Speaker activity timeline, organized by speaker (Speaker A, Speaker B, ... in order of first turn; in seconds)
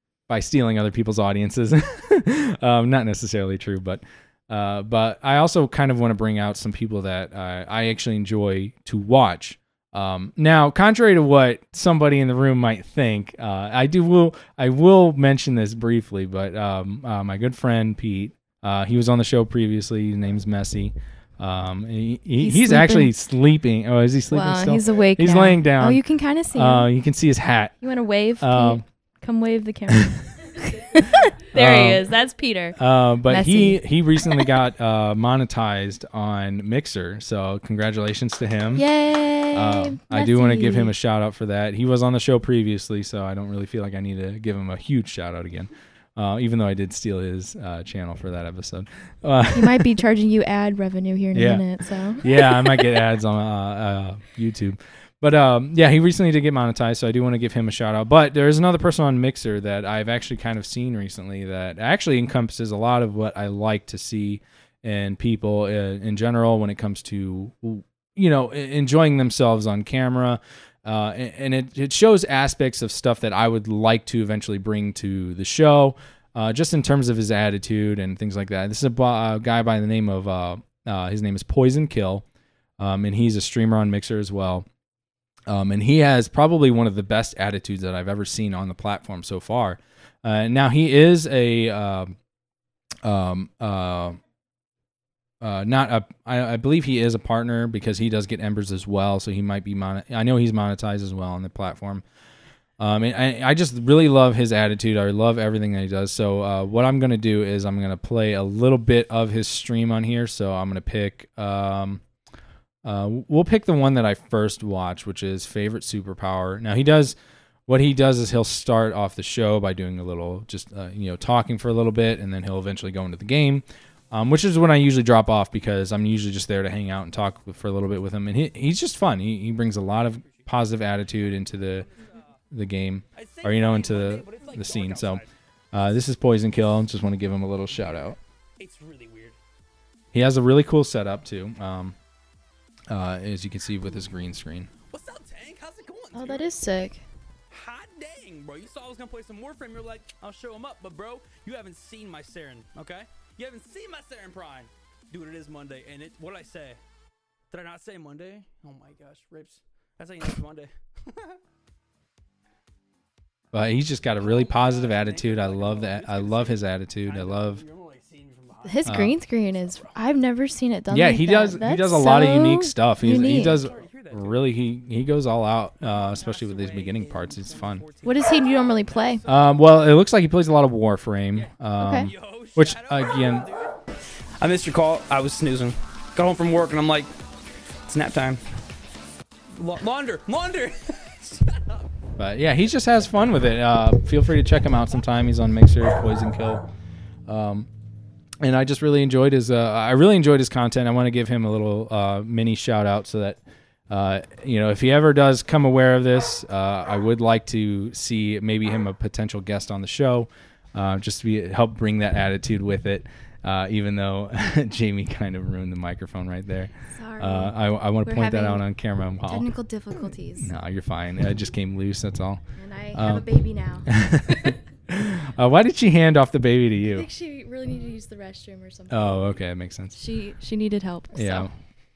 Speaker A: 0.3-26.0, 26.5-27.8, 28.4-28.8, 31.5-32.0, 32.8-38.9, 39.5-49.9, 51.3-82.2, 82.8-84.7, 85.5-92.2, 93.0-94.2, 95.4-102.0, 102.8-112.0, 112.8-117.2, 117.7-131.9, 132.5-138.2, 140.1-142.0, 142.9-144.7, 163.5-167.6, 168.8-169.1, 170.9-177.8, 179.2-183.5, 192.2-196.7, 197.2-197.7, 198.4-219.5, 220.3-222.4, 222.9-223.2, 223.8-227.1, 228.9-229.9, 231.1-231.5
Speaker B: 22.4-23.1, 24.3-26.9, 27.8-34.5, 38.8-40.9, 49.5-52.9, 146.1-147.0, 168.6-173.6, 178.0-179.2, 181.8-182.1, 216.9-218.7, 219.2-220.5, 222.5-223.9, 226.9-229.1, 229.9-231.5
Speaker C: 132.0-132.3, 133.2-135.3, 137.7-139.4, 144.8-146.5, 147.5-156.8, 157.5-161.4, 164.2-170.0, 173.0-174.4, 175.8-179.6, 181.3-183.8, 184.4-187.1, 187.9-188.4, 189.6-191.9